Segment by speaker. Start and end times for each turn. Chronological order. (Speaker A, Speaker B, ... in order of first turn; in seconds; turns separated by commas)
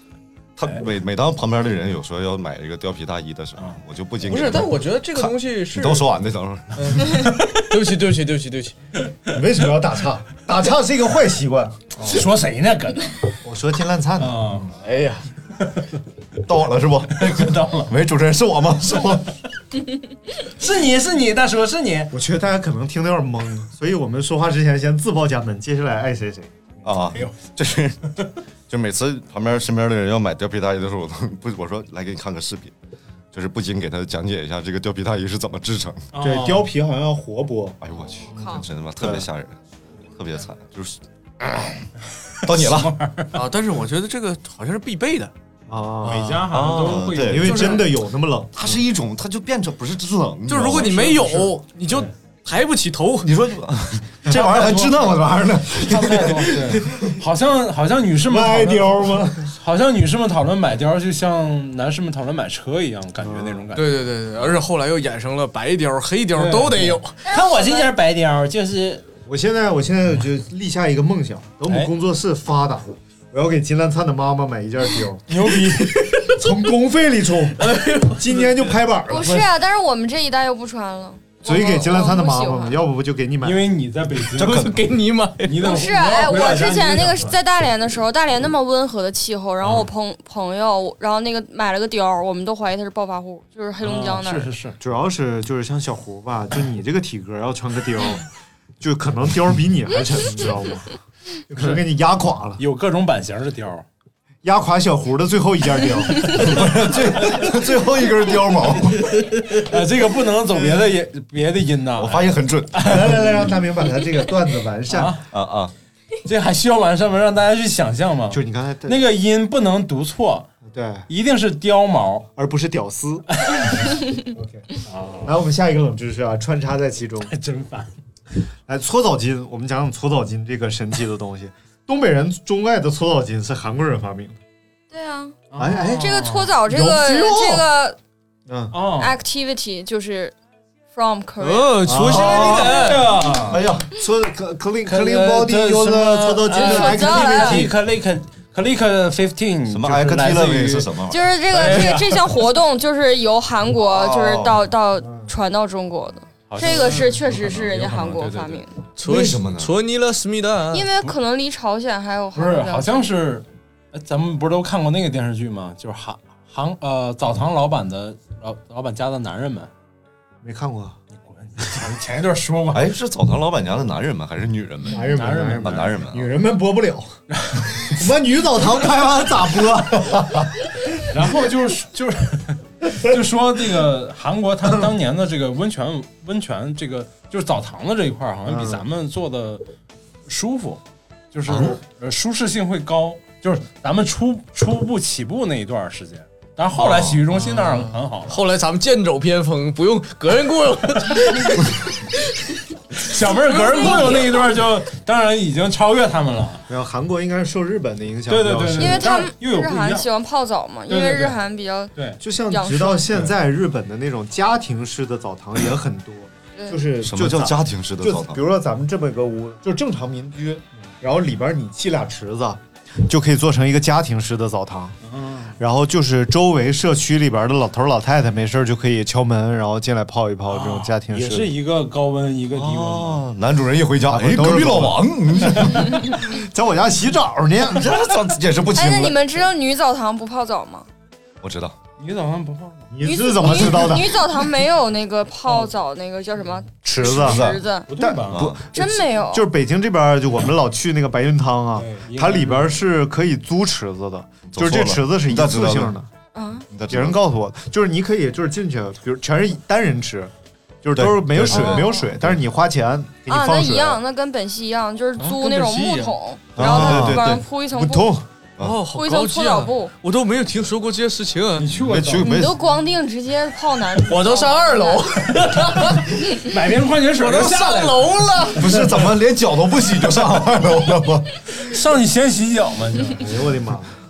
Speaker A: 0.6-7.0, Speaker B: 4.2-6.1, Speaker B: 6.8-8.7, Speaker C: 7.0-7.5, Speaker D: 9.3-12.2, Speaker C: 12.0-13.2, Speaker D: 13.4-14.7, Speaker C: 14.2-14.7, Speaker B: 14.8-15.2, Speaker C: 15.6-15.8, Speaker A: 16.4-19.3, Speaker C: 17.1-17.9, Speaker C: 20.6-22.1, Speaker D: 22.1-26.5, Speaker A: 26.8-28.1, Speaker C: 27.1-27.4, Speaker A: 28.7-32.7, Speaker A: 33.3-36.0, Speaker C: 36.1-36.7, Speaker D: 36.2-37.8, Speaker A: 37.8-39.6, Speaker E: 38.3-38.6, Speaker D: 38.3-39.2, Speaker A: 40.1-41.8, Speaker C: 42.4-43.3, Speaker A: 42.4-42.9, Speaker B: 43.3-45.3, Speaker D: 45.7-46.6, Speaker C: 46.0-47.8, Speaker A: 46.5-47.8, Speaker D: 47.2-48.8, Speaker B: 47.5-47.9, Speaker A: 48.5-51.6, Speaker B: 50.5-53.3, Speaker A: 53.2-56.9, Speaker D: 54.3-54.7, Speaker C: 55.8-64.0, Speaker D: 58.2-59.5, Speaker D: 63.2-63.6, Speaker B: 63.7-67.1, Speaker C: 66.3-69.0, Speaker D: 69.3-75.3, Speaker C: 71.7-71.9, Speaker C: 75.3-76.2, Speaker D: 76.3-77.6, Speaker B: 77.6-78.4, Speaker D: 78.1-79.5, Speaker E: 79.1-82.8, Speaker D: 81.4-83.7, Speaker C: 83.4-84.7, Speaker A: 84.4-84.8, Speaker B: 84.4-85.7, Speaker C: 85.4-87.3, Speaker E: 85.6-94.5, Speaker C: 93.8-94.8, Speaker D: 94.8-98.2, Speaker D: 98.8-100.9, Speaker D: 101.5-102.6, Speaker C: 102.6-103.8, Speaker D: 104.4-106.4, Speaker A: 106.2-109.2, Speaker C: 109.1-113.3, Speaker A: 112.0-113.0, Speaker D: 112.8-115.2, Speaker C: 114.9-115.2, Speaker A: 115.3-115.7, Speaker C: 116.2-120.5, Speaker D: 118.3-119.0, Speaker D: 120.7-121.0, Speaker C: 121.1-122.3, Speaker D: 122.3-123.2, Speaker D: 124.3-124.7, Speaker C: 124.9-125.3, Speaker D: 125.2-127.3, Speaker C: 127.2-127.9, Speaker D: 128.7-134.3, Speaker E: 134.9-135.4, Speaker C: 135.5-136.5, Speaker D: 135.6-137.6, Speaker E: 136.0-138.0, Speaker D: 138.5-138.8, Speaker C: 138.7-139.1, Speaker E: 139.0-140.3, Speaker E: 140.9-141.8, Speaker B: 141.4-143.0, Speaker D: 141.8-142.8, Speaker C: 142.1-143.6, Speaker A: 143.5-143.9, Speaker D: 143.9-147.7, Speaker C: 144.8-150.9, Speaker E: 146.5-147.7, Speaker A: 149.7-151.3, Speaker E: 151.1-158.7, Speaker C: 151.5-152.4, Speaker A: 153.8-154.6, Speaker D: 155.0-155.3, Speaker C: 156.5-158.6, Speaker B: 159.0-160.9, Speaker A: 159.0-159.7, Speaker E: 160.7-163.1, Speaker C: 162.3-169.7, Speaker D: 170.4-171.0, Speaker C: 171.2-172.9, Speaker A: 172.7-176.3, Speaker D: 174.9-177.1, Speaker C: 175.0-175.9, Speaker C: 177.3-177.7, Speaker D: 177.8-180.4, Speaker C: 181.1-189.6, Speaker D: 188.5-188.8, Speaker C: 190.3-190.8, Speaker C: 191.3-198.4, Speaker A: 191.5-191.7, Speaker A: 196.8-197.2, Speaker B: 198.2-201.5, Speaker C: 201.1-201.6, Speaker C: 203.0-206.6, Speaker E: 203.4-204.5, Speaker D: 206.7-209.1, Speaker C: 208.3-210.1, Speaker E: 208.8-211.9, Speaker C: 210.9-211.4, Speaker C: 211.9-212.2, Speaker D: 212.2-224.9, Speaker E: 212.5-213.1, Speaker E: 216.5-216.8, Speaker A: 217.0-218.4, Speaker C: 225.0-225.5, Speaker D: 225.6-231.5, Speaker C: 230.5-233.2, Speaker A: 232.5-236.2, Speaker D: 234.1-235.0, Speaker D: 235.7-237.9, Speaker A: 237.7-239.2, Speaker E: 238.7-240.9, Speaker A: 241.4-241.8, Speaker C: 242.0-242.9, Speaker D: 242.9-244.4, Speaker E: 243.0-247.9, Speaker D: 246.8-256.1, Speaker A: 247.0-247.6, Speaker C: 247.9-248.5, Speaker A: 248.3-248.6, Speaker E: 248.7-249.4, Speaker C: 251.7-252.8, Speaker A: 254.5-255.9, Speaker E: 256.3-256.7, Speaker A: 256.7-257.2, Speaker D: 256.9-260.3, Speaker D: 260.8-264.0, Speaker A: 260.9-262.4, Speaker E: 261.5-262.0, Speaker E: 263.3-268.1, Speaker B: 265.2-266.1, Speaker A: 266.5-267.4, Speaker D: 266.6-268.2, Speaker B: 268.6-271.6, Speaker E: 268.9-269.9, Speaker C: 271.6-272.3, Speaker A: 271.7-272.6, Speaker E: 272.2-275.1, Speaker B: 274.0-276.1, Speaker C: 275.5-278.9, Speaker B: 277.2-278.6, Speaker A: 278.5-281.3, Speaker C: 281.5-283.3, Speaker D: 283.1-283.9